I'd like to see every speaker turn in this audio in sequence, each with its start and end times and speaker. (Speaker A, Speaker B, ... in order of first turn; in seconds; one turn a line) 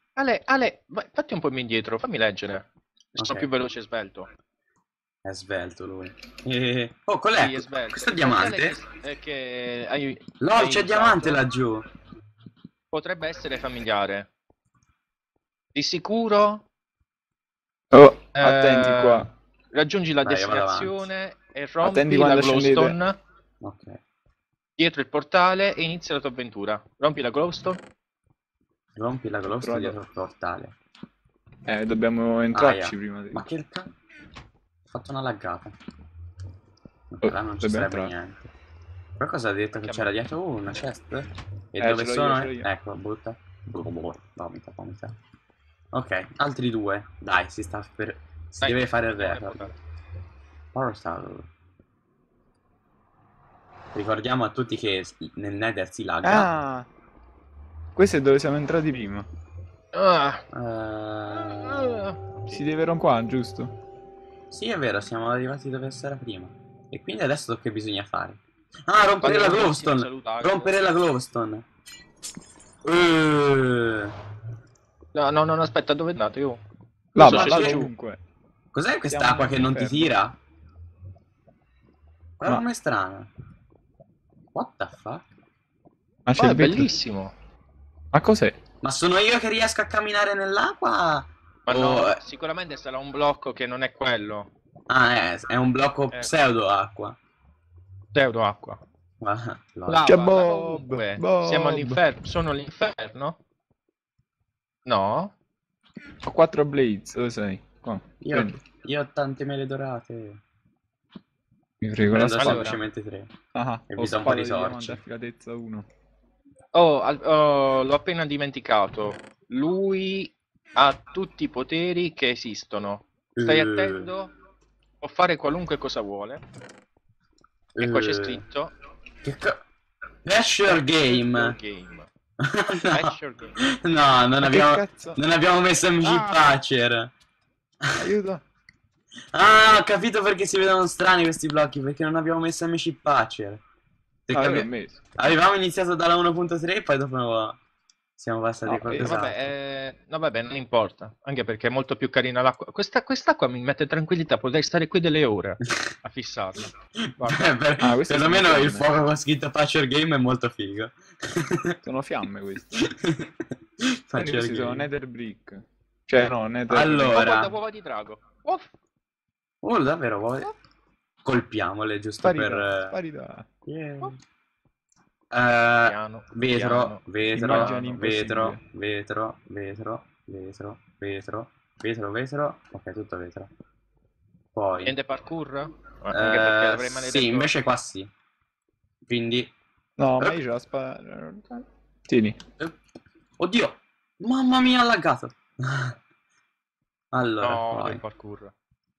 Speaker A: 0.2-4.3
Speaker B: 3.1-3.5
Speaker B: 5.2-8.8
Speaker A: 7.4-11.4
Speaker B: 10.4-11.8
Speaker A: 12.9-14.3
Speaker A: 15.7-16.6
Speaker C: 17.9-19.3
Speaker A: 18.3-23.2
Speaker B: 20.2-21.1
Speaker C: 21.8-22.9
Speaker B: 23.6-24.0
Speaker A: 24.8-27.8
Speaker B: 28.9-30.7
Speaker C: 29.5-30.0
Speaker C: 31.7-33.4
Speaker B: 32.5-33.9
Speaker B: 34.9-35.7
Speaker B: 37.1-38.5
Speaker C: 37.2-38.1
Speaker B: 39.2-45.1
Speaker A: 39.8-40.1
Speaker C: 41.8-42.6
Speaker B: 45.9-49.7
Speaker A: 48.6-49.8
Speaker B: 50.7-51.5
Speaker B: 53.9-56.5
Speaker C: 56.2-56.9
Speaker C: 58.0-59.3
Speaker A: 59.9-60.4
Speaker B: 60.5-62.0
Speaker A: 61.5-62.6
Speaker C: 62.5-63.7
Speaker B: 64.5-71.7
Speaker A: 69.2-70.8
Speaker B: 72.8-74.2
Speaker A: 75.1-76.6
Speaker C: 77.1-78.2
Speaker A: 77.2-77.9
Speaker B: 77.2-77.8
Speaker B: 78.7-80.4
Speaker C: 79.1-80.1
Speaker B: 82.4-83.3
Speaker B: 84.5-85.3
Speaker C: 86.2-86.9
Speaker A: 86.4-87.3
Speaker C: 88.1-88.5
Speaker B: 88.8-92.2
Speaker A: 91.7-94.5
Speaker B: 94.9-97.2
Speaker A: 98.1-98.8
Speaker B: 99.2-100.3
Speaker A: 99.9-103.4
Speaker C: 100.0-102.0
Speaker A: 104.8-105.3
Speaker C: 106.2-108.6
Speaker B: 108.2-110.4
Speaker C: 111.8-112.8
Speaker B: 112.1-113.3
Speaker C: 113.5-115.8
Speaker B: 113.9-115.0
Speaker A: 116.7-124.3
Speaker B: 123.3-124.1
Speaker A: 125.0-126.4
Speaker B: 127.7-128.4
Speaker A: 127.8-128.7
Speaker B: 129.2-129.6
Speaker B: 130.2-131.6
Speaker A: 130.7-132.1
Speaker B: 132.4-137.1
Speaker A: 132.9-133.6
Speaker C: 134.4-135.2
Speaker C: 136.0-136.4
Speaker C: 137.9-138.4
Speaker B: 139.3-143.6
Speaker B: 144.3-147.6
Speaker C: 144.3-145.1
Speaker B: 148.2-149.5
Speaker C: 148.6-149.2
Speaker A: 148.9-157.5
Speaker B: 157.0-161.8
Speaker C: 157.8-158.9
Speaker C: 161.8-162.9
Speaker B: 162.7-164.9
Speaker C: 164.2-167.2
Speaker B: 166.7-167.5
Speaker A: 167.1-168.7
Speaker B: 169.6-170.5
Speaker B: 171.2-173.0
Speaker C: 172.2-173.4
Speaker B: 173.7-174.2
Speaker B: 175.3-183.5
Speaker A: 175.8-177.8
Speaker C: 177.3-178.6
Speaker B: 184.5-185.0
Speaker A: 184.8-187.5
Speaker B: 186.1-188.1
Speaker B: 189.1-189.5
Speaker C: 190.0-192.4
Speaker B: 193.4-196.0
Speaker B: 197.1-198.0
Speaker A: 197.4-198.5